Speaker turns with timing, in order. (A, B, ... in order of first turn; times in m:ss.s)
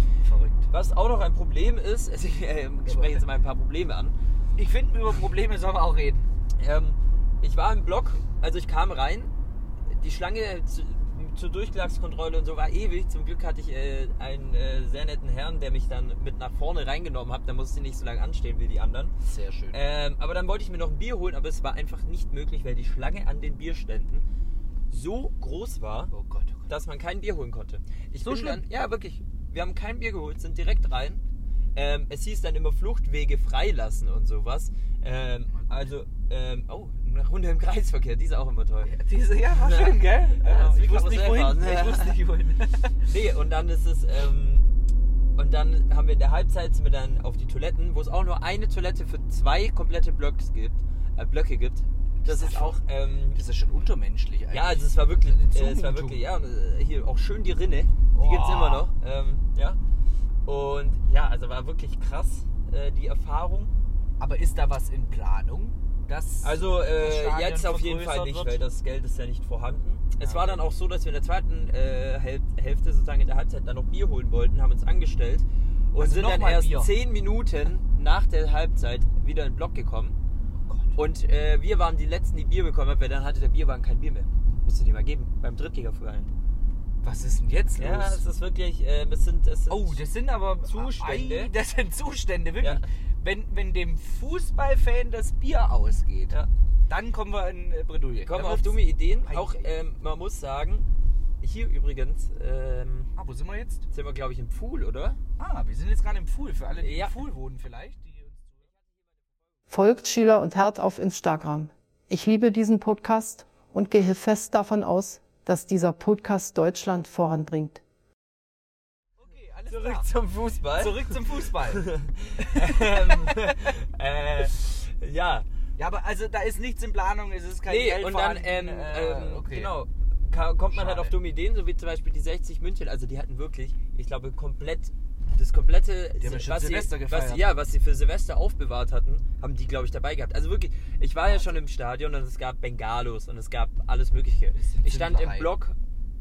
0:00.2-0:00.7 A
0:00.7-0:04.1 B
0:02.9-0:03.2 A
0:04.6-0:06.3 A
0:06.6-0:09.3 B
0:09.9-0:19.1 B
0:19.2-0:19.8 A
0:19.7-0:24.2 B
0:24.9-0:26.1 B
0:26.1-0:26.7 A
0:26.7-0:31.2 B
0:28.2-0:28.6 A
0:31.8-0:38.9 B
0:35.5-0:35.8 A
0:38.8-0:43.0 A
0:39.6-0:42.2 B
0:43.0-0:44.6 B
0:45.4-0:53.4 B
0:52.2-0:52.8 A
0:53.3-0:56.2 A
0:54.5-0:59.8 B
0:58.1-0:58.9 A
1:00.5-1:03.7 B
1:04.2-1:08.6 A
1:06.4-1:20.2 B
1:10.2-1:10.7 A
1:16.0-1:16.9 A
1:20.6-1:21.0 A
1:21.0-1:26.3 B
1:27.0-1:28.2 A
1:27.8-1:30.0 B
1:29.7-1:36.4 A
1:30.7-1:31.5 B
1:36.9-1:39.7 A
1:38.2-1:40.9 B
1:41.4-1:43.1 B
1:43.1-1:43.9 A
1:43.9-1:45.2 B
1:45.4-1:48.7 A
1:46.8-1:47.2 B
1:49.7-1:57.8 C
1:59.2-2:00.1 A
1:59.7-2:05.5 B
2:00.8-2:01.9 A
2:02.4-2:03.5 A
2:05.8-2:09.7 A
2:07.7-2:25.8 B
2:10.7-2:11.2 A
2:16.2-2:17.4 A
2:21.3-2:21.6 A
2:24.5-2:25.5 A